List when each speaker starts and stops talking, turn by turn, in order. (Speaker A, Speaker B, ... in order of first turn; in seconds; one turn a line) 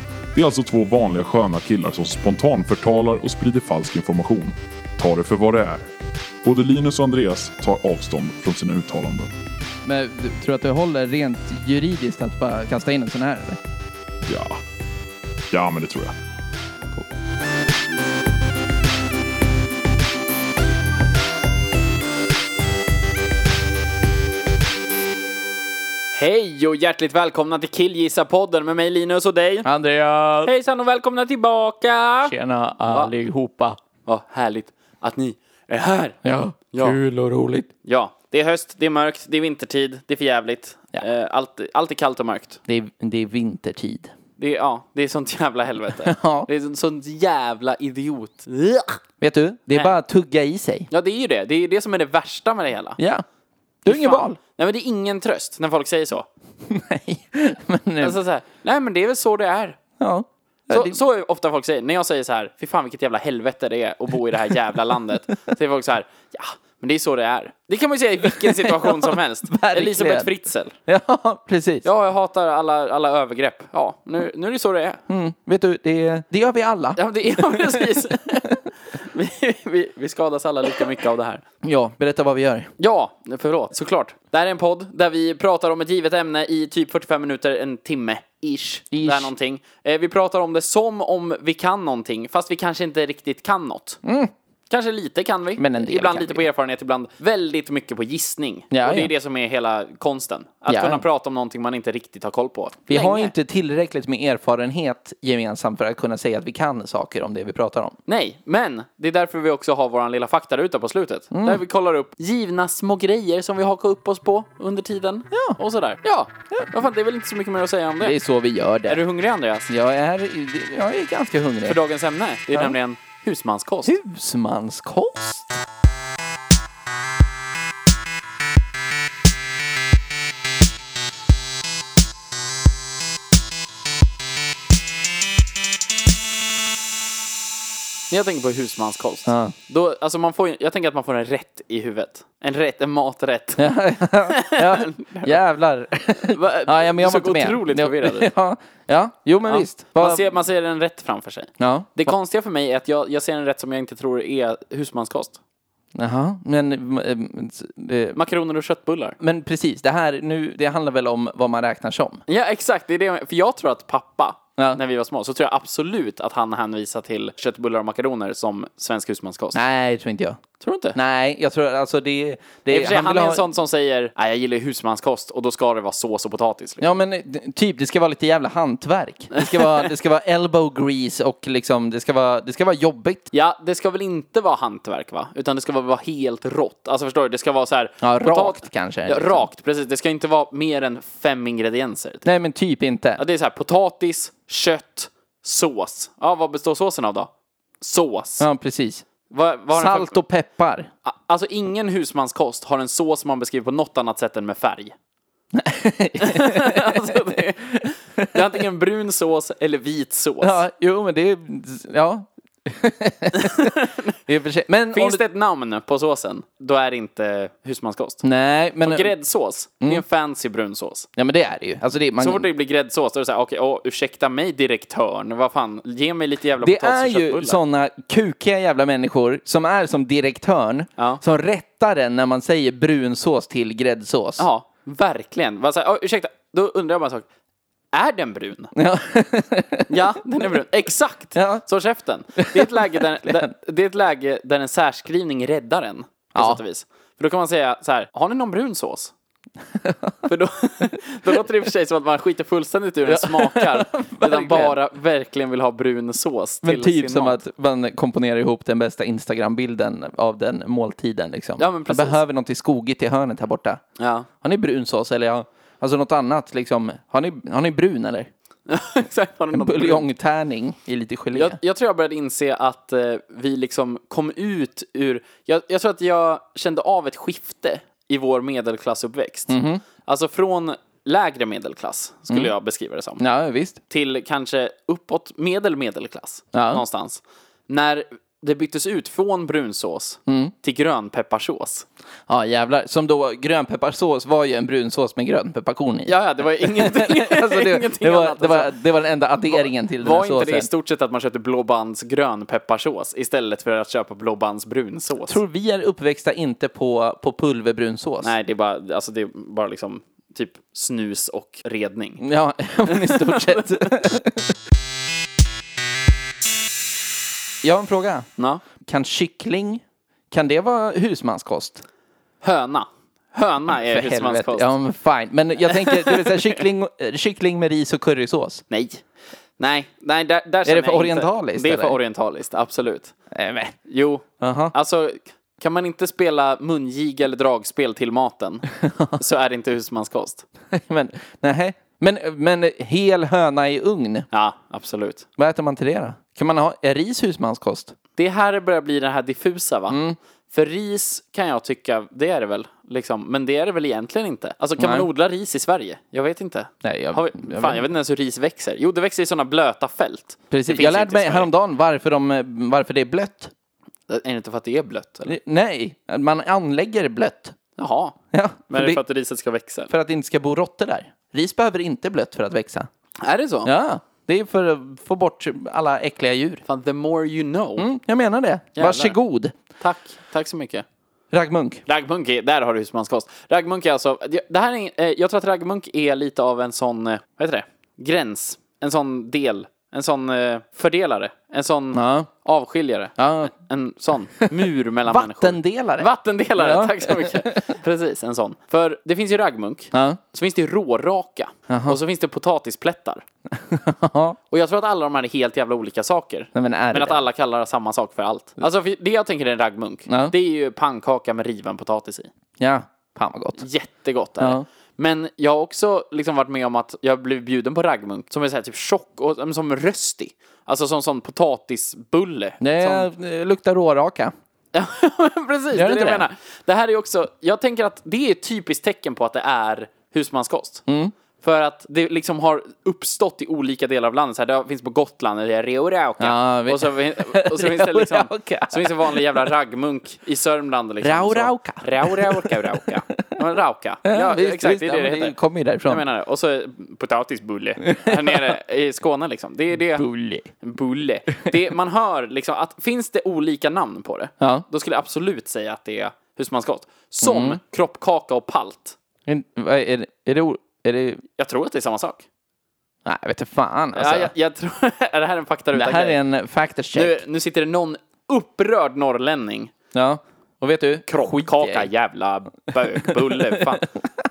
Speaker A: 0.3-5.8
Speaker A: 6.4-9.3
Speaker B: 9.8-13.6
Speaker A: 14.2-14.6
Speaker A: 15.5-16.1
Speaker C: 26.1-29.7
Speaker B: 29.6-30.5
Speaker C: 30.4-32.3
Speaker B: 32.2-33.8
Speaker C: 32.9-33.1
Speaker C: 34.0-36.2
Speaker B: 36.2-37.7
Speaker C: 36.7-37.0
Speaker C: 37.8-42.6
Speaker B: 42.7-44.1
Speaker C: 44.4-49.0
Speaker B: 46.0-46.5
Speaker B: 49.2-50.9
Speaker C: 50.9-53.0
Speaker B: 53.0-53.2
Speaker B: 53.8-54.4
Speaker C: 53.9-56.3
Speaker B: 56.6-58.2
Speaker C: 58.0-59.8
Speaker B: 60.0-61.0
Speaker C: 60.7-70.7
Speaker B: 68.2-70.3
Speaker B: 70.9-71.8
Speaker C: 71.8-75.0
Speaker B: 75.1-78.6
Speaker C: 77.0-81.4
Speaker B: 81.6-82.7
Speaker C: 82.8-94.0
Speaker B: 88.9-89.3
Speaker B: 94.0-94.3
Speaker C: 94.7-103.3
Speaker B: 95.6-96.4
Speaker B: 98.7-99.1
Speaker B: 100.7-101.0
Speaker B: 102.9-107.9
Speaker C: 108.0-118.2
Speaker B: 111.3-111.6
Speaker B: 115.3-115.6
Speaker B: 118.0-119.0
Speaker C: 118.9-119.7
Speaker B: 119.7-121.8
Speaker C: 121.7-123.9
Speaker B: 123.8-125.5
Speaker C: 138.1-145.3
Speaker B: 139.2-139.5
Speaker B: 143.6-150.3
Speaker C: 146.2-148.3
Speaker C: 149.4-155.4
Speaker B: 151.6-152.1
Speaker B: 155.9-158.2
Speaker C: 158.1-159.2
Speaker B: 159.2-162.2
Speaker C: 162.3-169.6
Speaker B: 169.5-170.4
Speaker C: 170.6-171.0
Speaker B: 170.9-173.4
Speaker C: 172.7-176.9
Speaker B: 176.8-183.3
Speaker C: 179.3-179.8
Speaker C: 183.3-192.2
Speaker B: 188.0-189.5
Speaker B: 192.2-193.2
Speaker C: 193.2-197.3
Speaker C: 197.8-198.4
Speaker B: 198.4-199.0
Speaker C: 199.3-200.2
Speaker B: 199.7-200.9
Speaker C: 201.0-204.9
Speaker B: 205.5-207.2
Speaker C: 206.2-210.6
Speaker B: 208.2-208.4
Speaker B: 210.4-213.8
Speaker C: 213.3-214.1
Speaker B: 214.3-215.2
Speaker C: 214.9-218.2
Speaker B: 218.2-219.1
Speaker C: 218.8-221.1
Speaker B: 221.2-222.5
Speaker C: 222.2-227.6
Speaker B: 226.6-234.4
Speaker C: 234.4-237.2
Speaker C: 237.9-238.7
Speaker B: 238.7-239.9
Speaker C: 239.9-249.1
Speaker B: 241.3-241.6
Speaker B: 242.4-243.5
Speaker B: 246.3-246.6
Speaker B: 249.8-250.2
Speaker C: 250.2-257.4
Speaker B: 253.1-254.8
Speaker B: 256.6-263.8
Speaker C: 261.6-262.2
Speaker C: 264.0-264.3
Speaker B: 264.4-268.3
Speaker C: 268.7-270.0
Speaker B: 269.5-271.6
Speaker C: 271.3-283.2
Speaker B: 279.5-279.8
Speaker B: 283.2-283.8
Speaker C: 283.9-291.9
Speaker B: 286.5-286.8
Speaker B: 290.3-290.5
Speaker B: 292.3-300.7
Speaker C: 296.1-298.7
Speaker C: 299.5-305.4
Speaker B: 305.3-308.3
Speaker C: 308.2-312.2
Speaker B: 312.2-314.6
Speaker C: 312.9-313.8
Speaker B: 317.6-318.3
Speaker C: 318.4-318.6
Speaker B: 318.8-321.8
Speaker C: 322.4-324.7
Speaker B: 323.7-328.6
Speaker C: 325.7-326.6
Speaker C: 328.7-329.0
Speaker C: 329.6-333.1
Speaker B: 330.6-332.0
Speaker B: 333.3-333.7
Speaker C: 333.8-340.4
Speaker B: 334.4-334.7
Speaker B: 338.8-339.2
Speaker B: 340.7-344.3
Speaker C: 344.3-345.2
Speaker B: 345.4-347.9
Speaker C: 348.2-350.0
Speaker B: 349.9-350.2
Speaker C: 350.5-361.5
Speaker B: 354.8-355.1
Speaker B: 356.8-357.8
Speaker B: 360.5-363.5
Speaker C: 364.1-365.3
Speaker B: 365.3-367.5
Speaker C: 367.8-368.1
Speaker B: 368.3-369.0
Speaker C: 368.7-369.9
Speaker B: 369.9-372.9
Speaker C: 373.2-373.7
Speaker B: 373.6-376.6
Speaker C: 376.6-377.9
Speaker B: 377.8-379.5
Speaker C: 378.8-379.1
Speaker C: 379.8-380.8
Speaker B: 381.3-381.8
Speaker C: 381.9-403.2
Speaker B: 391.9-392.3
Speaker B: 393.2-393.5
Speaker B: 395.1-397.6
Speaker B: 399.9-400.2
Speaker B: 401.7-402.0
Speaker B: 403.5-404.4
Speaker C: 404.5-412.3
Speaker B: 406.5-407.2
Speaker B: 410.1-410.3
Speaker B: 412.6-413.6
Speaker C: 413.6-423.1
Speaker B: 414.4-414.6
Speaker B: 422.6-424.3
Speaker C: 424.7-430.8
Speaker B: 425.7-426.2
Speaker B: 430.9-431.1
Speaker C: 431.4-445.4
Speaker B: 436.2-439.4
Speaker B: 441.0-443.3
Speaker B: 444.1-446.0
Speaker C: 445.9-450.1
Speaker B: 447.9-448.6
Speaker B: 449.9-450.5
Speaker C: 450.6-458.9
Speaker B: 454.4-454.6
Speaker B: 457.2-457.6
Speaker B: 459.2-461.2
Speaker C: 461.4-462.2
Speaker B: 463.0-464.3
Speaker C: 463.9-466.2
Speaker B: 465.7-467.2
Speaker C: 466.9-469.7
Speaker B: 469.9-471.9
Speaker C: 471.1-473.8
Speaker B: 473.0-473.8